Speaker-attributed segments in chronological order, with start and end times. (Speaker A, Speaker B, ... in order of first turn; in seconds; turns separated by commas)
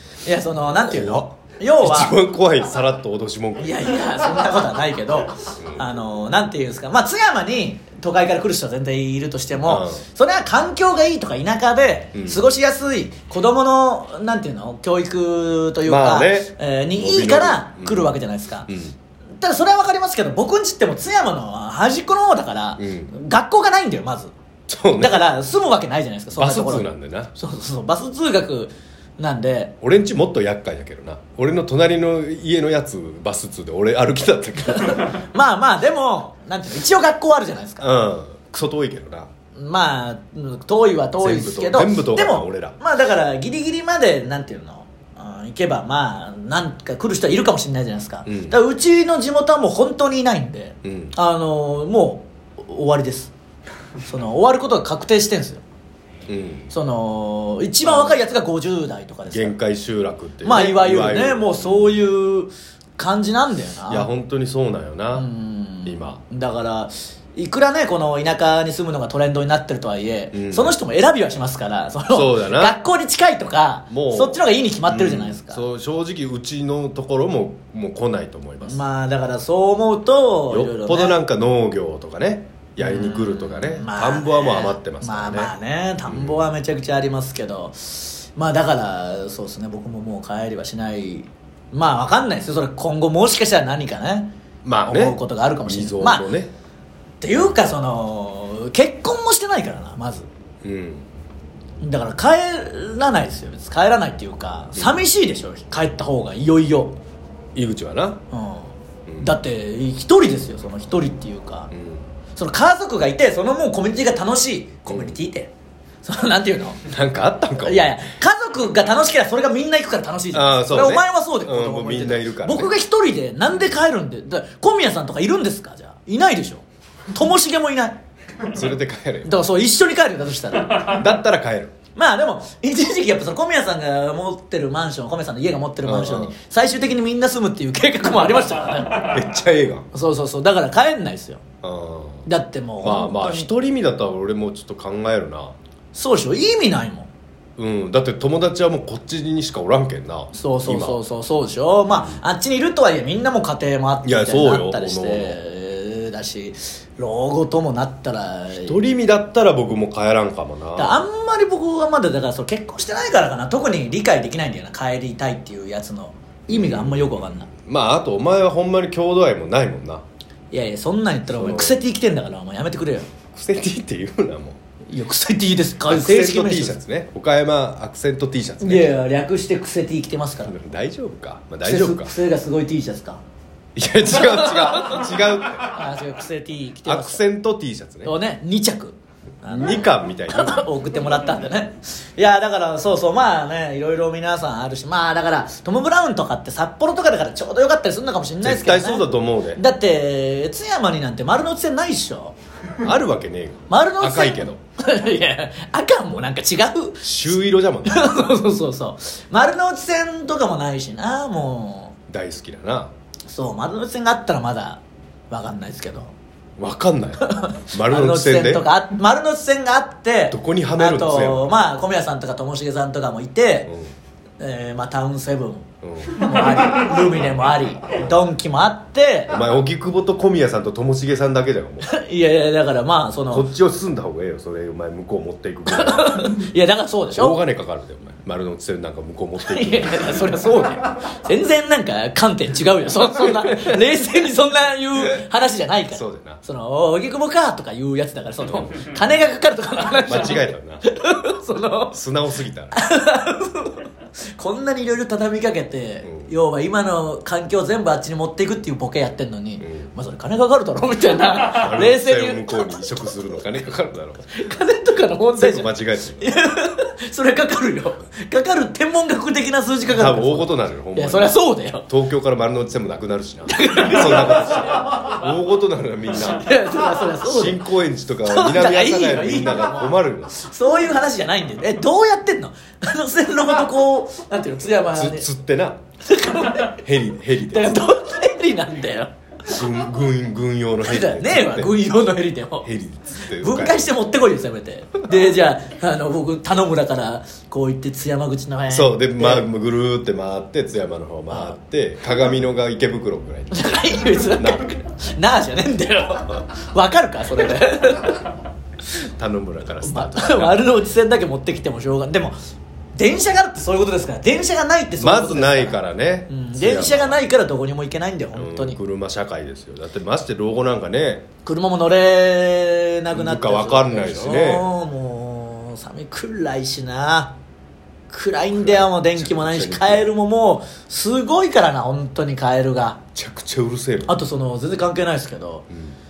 Speaker A: 0.2-2.2, Speaker B: 0.7-4.0, Speaker A: 3.6-18.7, Speaker B: 5.6-5.8, Speaker B: 9.6-10.0, Speaker B: 12.1-12.5, Speaker B: 15.8-18.9, Speaker A: 19.4-24.3, Speaker B: 22.8-23.1, Speaker B: 24.7-25.3, Speaker A: 25.0-29.7, Speaker B: 26.3-27.3, Speaker B: 29.8-35.2, Speaker A: 34.7-37.9, Speaker B: 37.8-39.3, Speaker A: 39.5-53.3, Speaker B: 41.2-42.8, Speaker B: 48.2-48.6, Speaker B: 50.8-51.1, Speaker A: 54.0-55.6, Speaker B: 56.3-56.7, Speaker A: 56.7-59.6, Speaker B: 57.8-58.2, Speaker B: 59.3-62.0, Speaker A: 60.4-64.1, Speaker B: 63.9-65.3, Speaker A: 65.1-75.6, Speaker B: 65.8-66.2, Speaker B: 70.3-70.8, Speaker B: 72.1-72.8, Speaker B: 73.9-78.8, Speaker A: 78.6-81.2, Speaker B: 80.5-85.5, Speaker A: 82.8-94.3, Speaker B: 86.1-86.4, Speaker B: 94.6-96.5, Speaker A: 94.8-96.3, Speaker A: 97.2-100.3, Speaker B: 100.6-101.0, Speaker A: 101.8-107.0, Speaker B: 104.8-105.0, Speaker B: 107.5-108.2, Speaker A: 108.3-111.7, Speaker B: 109.1-109.3, Speaker B: 111.7-112.1, Speaker A: 112.3-115.5, Speaker B: 114.9-115.2, Speaker A: 116.0-116.8, Speaker B: 116.8-118.0, Speaker A: 117.6-128.0, Speaker B: 120.3-122.7, Speaker B: 128.4-129.3, Speaker A: 129.2-131.0, Speaker B: 130.8-131.7, Speaker A: 131.9-139.2, Speaker B: 135.8-136.3, Speaker B: 139.0-139.9, Speaker A: 139.9-141.4, Speaker B: 141.6-142.3, Speaker A: 142.2-143.5, Speaker B: 142.8-145.6, Speaker A: 145.9-147.1, Speaker B: 147.6-151.0, Speaker A: 150.3-158.8, Speaker B: 151.9-152.2, Speaker B: 154.0-155.4, Speaker B: 158.6-161.1, Speaker A: 160.8-167.5, Speaker B: 166.5-170.0, Speaker A: 170.5-173.1, Speaker B: 171.3-171.8, Speaker B: 173.3-174.6, Speaker A: 174.9-176.8, Speaker B: 175.8-179.0, Speaker A: 178.6-180.5, Speaker B: 180.4-182.2, Speaker A: 181.6-183.2, Speaker B: 183.8-185.8, Speaker A: 184.1-185.1, Speaker A: 185.6-187.2, Speaker B: 186.8-188.1, Speaker A: 188.0-202.3, Speaker B: 189.5-190.7, Speaker B: 198.4-199.6, Speaker B: 202.8-204.6, Speaker A: 203.7-207.1, Speaker B: 207.0-208.3, Speaker A: 207.8-211.9, Speaker B: 212.1-212.9, Speaker A: 213.3-216.1, Speaker B: 216.6-218.7, Speaker A: 217.2-223.7, Speaker B: 220.3-221.5, Speaker A: 224.4-229.3, Speaker B: 225.8-226.3, Speaker B: 229.3-231.9, Speaker A: 231.8-233.5, Speaker B: 233.3-236.4, Speaker A: 235.7-237.4, Speaker B: 237.1-240.2, Speaker A: 239.4-251.9, Speaker B: 245.9-246.4, Speaker B: 248.4-248.7, Speaker B: 250.0-250.8, Speaker B: 251.9-252.8, Speaker A: 252.7-263.1, Speaker B: 256.0-256.3, Speaker B: 259.6-259.9, Speaker B: 261.5-264.3, Speaker A: 264.3-271.9, Speaker B: 265.4-266.3, Speaker B: 269.9-276.5, Speaker A: 273.5-275.0, Speaker A: 276.1-277.6, Speaker B: 277.2-280.3, Speaker A: 278.2-285.3, Speaker B: 284.9-285.8, Speaker A: 286.0-286.8, Speaker B: 286.6-287.8, Speaker A: 287.4-289.6, Speaker B: 289.5-291.8, Speaker A: 290.8-292.7, Speaker B: 292.6-293.9, Speaker A: 293.3-299.5, Speaker B: 298.7-304.7, Speaker A: 301.3-301.6, Speaker A: 303.5-308.3, Speaker B: 309.0-310.7, Speaker A: 309.8-312.4, Speaker A: 312.9-315.8, Speaker B: 315.0-317.2, Speaker A: 316.3-318.8, Speaker B: 318.3-321.2, Speaker A: 321.4-327.3, Speaker B: 323.1-324.7, Speaker A: 328.1-333.0, Speaker B: 328.5-330.1, Speaker B: 333.1-334.2, Speaker A: 334.1-335.7